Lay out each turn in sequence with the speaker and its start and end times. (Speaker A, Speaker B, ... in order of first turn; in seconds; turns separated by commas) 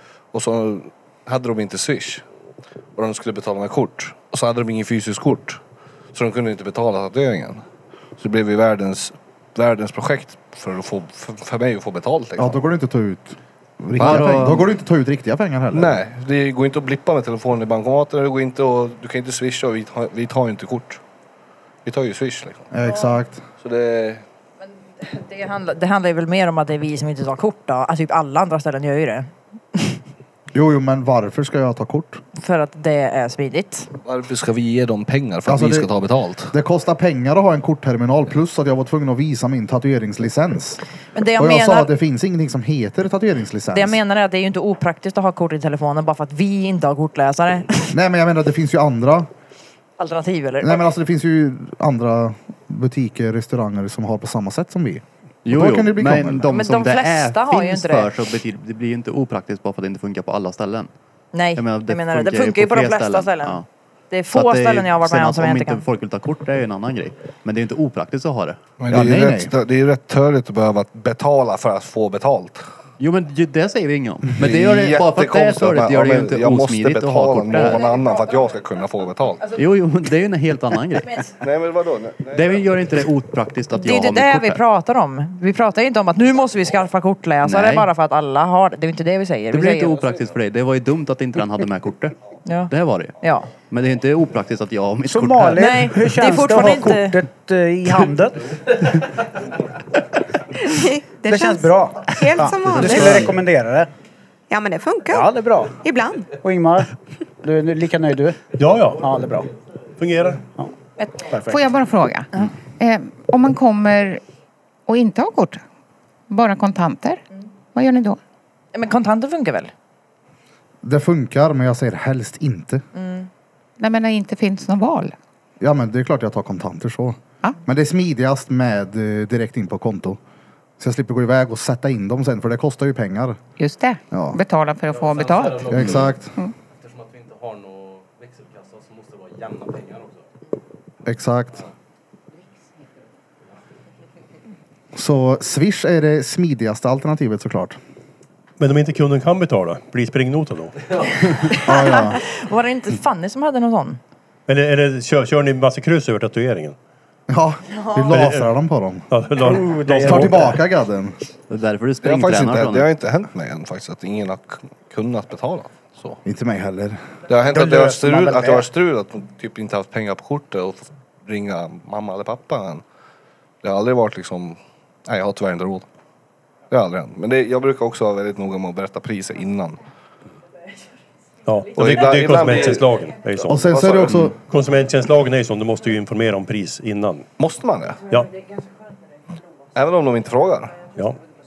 Speaker A: 0.3-2.2, Speaker A: 3.0-5.6, Speaker A: 6.1-7.6, Speaker A: 8.2-12.6, Speaker B: 12.4-16.0, Speaker C: 13.9-14.7, Speaker A: 14.0-14.5, Speaker A: 15.7-21.0, Speaker A: 21.8-22.7, Speaker B: 22.7-23.4, Speaker A: 23.6-24.2, Speaker D: 25.0-29.9, Speaker B: 30.5-32.2, Speaker D: 32.4-33.9, Speaker A: 34.0-36.5, Speaker B: 35.5-35.9, Speaker B: 36.5-40.8, Speaker D: 41.1-41.9, Speaker B: 41.4-44.0, Speaker D: 43.7-47.9, Speaker B: 47.9-49.3, Speaker D: 50.0-50.8, Speaker B: 50.6-56.5, Speaker C: 55.4-60.9, Speaker D: 56.5-58.1, Speaker D: 61.3-65.8, Speaker C: 61.5-63.6, Speaker C: 64.3-68.6, Speaker A: 68.8-72.6, Speaker B: 68.9-69.5, Speaker C: 73.0-77.9, Speaker A: 74.4-79.6, Speaker C: 79.5-81.2, Speaker A: 81.4-82.9, Speaker C: 82.3-84.6, Speaker D: 83.7-90.1, Speaker C: 87.4-87.9, Speaker C: 89.5-92.1, Speaker D: 92.5-93.5, Speaker C: 92.7-93.1, Speaker C: 93.7-95.8, Speaker E: 95.0-99.0, Speaker D: 95.6-97.2, Speaker F: 100.6-103.3, Speaker E: 101.2-103.9, Speaker C: 102.8-103.3, Speaker F: 104.5-106.3, Speaker E: 105.1-105.8, Speaker E: 106.4-109.5, Speaker G: 108.6-109.1, Speaker G: 110.0-110.4, Speaker E: 110.6-111.7, Speaker H: 111.5-114.2, Speaker H: 114.9-115.6, Speaker H: 116.3-117.2, Speaker H: 117.7-118.2, Speaker D: 118.7-119.7, Speaker B: 120.8-122.8, Speaker D: 123.0-123.3, Speaker H: 123.8-125.1, Speaker B: 125.6-130.2, Speaker B: 130.8-133.4, Speaker H: 133.6-136.5, Speaker B: 134.1-134.4, Speaker I: 134.9-136.1, Speaker B: 135.7-136.3, Speaker I: 136.8-140.3, Speaker B: 141.0-141.6, Speaker B: 144.9-147.8, Speaker G: 148.6-150.8, Speaker D: 151.5-154.0, Speaker B: 151.6-152.2, Speaker G: 154.5-156.8, Speaker B: 157.3-159.0, Speaker D: 157.8-158.0, Speaker G: 158.1-158.5, Speaker G: 159.1-160.5, Speaker E: 159.4-160.6, Speaker B: 160.0-161.2, Speaker C: 161.5-162.9, Speaker A: 162.0-166.2, Speaker B: 166.2-167.0, Speaker A: 167.3-172.8, Speaker E: 167.5-168.7, Speaker A: 173.6-175.9, Speaker A: 176.7-179.8, Speaker G: 181.4-187.3, Speaker A: 181.8-182.9, Speaker B: 183.5-184.3, Speaker A: 183.5-184.3, Speaker A: 187.4-188.0, Speaker A: 189.7-190.8